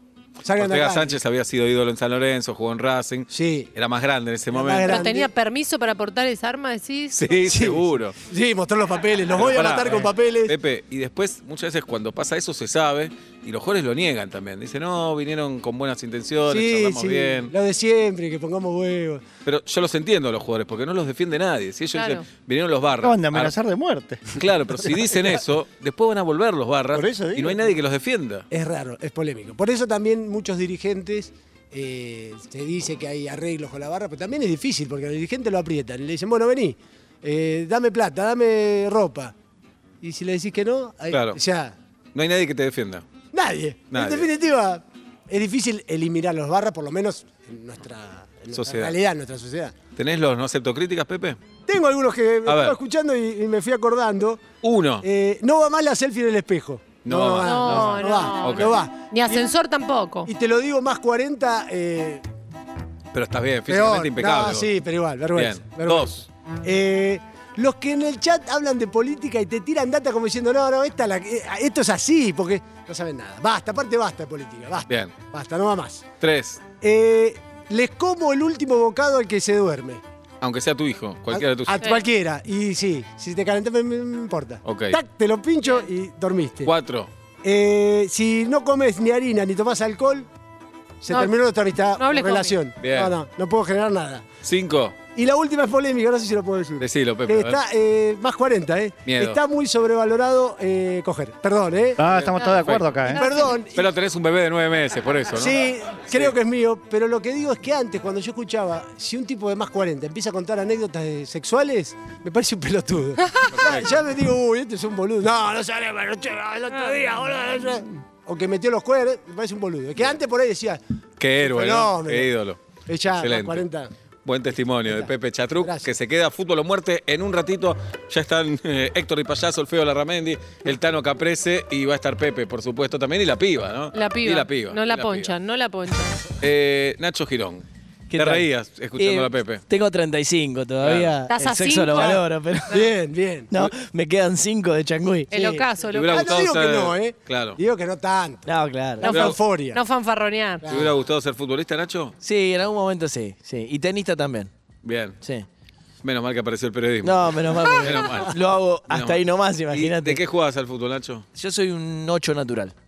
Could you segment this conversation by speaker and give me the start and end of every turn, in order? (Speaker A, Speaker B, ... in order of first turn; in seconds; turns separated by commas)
Speaker A: 0.4-1.2, Speaker B: 0.6-5.1, Speaker A: 3.3-3.7, Speaker A: 4.5-5.3, Speaker C: 4.8-7.6, Speaker B: 7.1-8.2, Speaker A: 7.5-10.6, Speaker B: 9.3-17.5, Speaker A: 16.4-19.2, Speaker B: 19.4-23.6, Speaker C: 21.9-22.3, Speaker D: 23.0-24.4, Speaker B: 24.4-28.5, Speaker D: 26.9-27.6, Speaker A: 28.5-39.3, Speaker A: 40.0-41.8, Speaker B: 41.1-41.4, Speaker B: 42.1-43.1, Speaker A: 43.3-49.8, Speaker B: 43.9-44.3, Speaker B: 48.5-49.0, Speaker B: 50.0-51.4, Speaker A: 51.7-54.4, Speaker B: 52.5-52.8, Speaker B: 54.6-55.0, Speaker A: 55.0-59.5, Speaker B: 57.0-58.7, Speaker C: 57.4-60.3, Speaker A: 60.3-62.2, Speaker B: 63.1-64.7, Speaker A: 63.7-76.0, Speaker B: 65.3-66.2, Speaker B: 74.9-75.1, Speaker B: 76.2-76.6, Speaker A: 76.8-80.0, Speaker B: 80.4-81.9, Speaker A: 81.3-86.7, Speaker B: 84.6-85.0, Speaker B: 86.6-87.1, Speaker A: 87.4-90.3, Speaker A: 91.0-94.2, Speaker C: 91.1-91.4, Speaker C: 92.0-92.7, Speaker B: 92.8-93.2, Speaker B: 94.4-95.0, Speaker A: 95.1-102.0, Speaker B: 96.8-97.6, Speaker B: 99.0-99.4, Speaker D: 102.0-103.3, Speaker B: 102.1-103.2, Speaker C: 103.1-103.5, Speaker A: 103.1-103.9, Speaker B: 103.7-106.3, Speaker A: 105.3-120.8, Speaker B: 113.5-114.0, Speaker B: 121.2-123.7, Speaker A: 121.4-122.3, Speaker A: 122.9-123.9, Speaker B: 124.2-135.3, Speaker A: 124.8-125.9, Speaker C: 133.9-136.2, Speaker B: 136.4-137.7, Speaker E: 138.1-142.8, Speaker B: 138.2-139.6, Speaker B: 140.8-141.1, Speaker C: 141.3-142.8, Speaker A: 142.7-143.5, Speaker E: 143.5-145.3, Speaker C: 145.3-146.3, Speaker A: 145.3-148.5, Speaker B: 145.9-147.6, Speaker E: 148.5-149.2, Speaker A: 149.0-149.8, Speaker C: 149.0-150.7, Speaker B: 149.1-149.4, Speaker A: 150.6-151.0, Speaker B: 150.7-152.2, Speaker E: 152.2-154.5, Speaker B: 154.8-155.2, Speaker E: 155.2-155.5, Speaker B: 156.0-161.3, Speaker E: 157.0-160.2, Speaker E: 161.3-162.7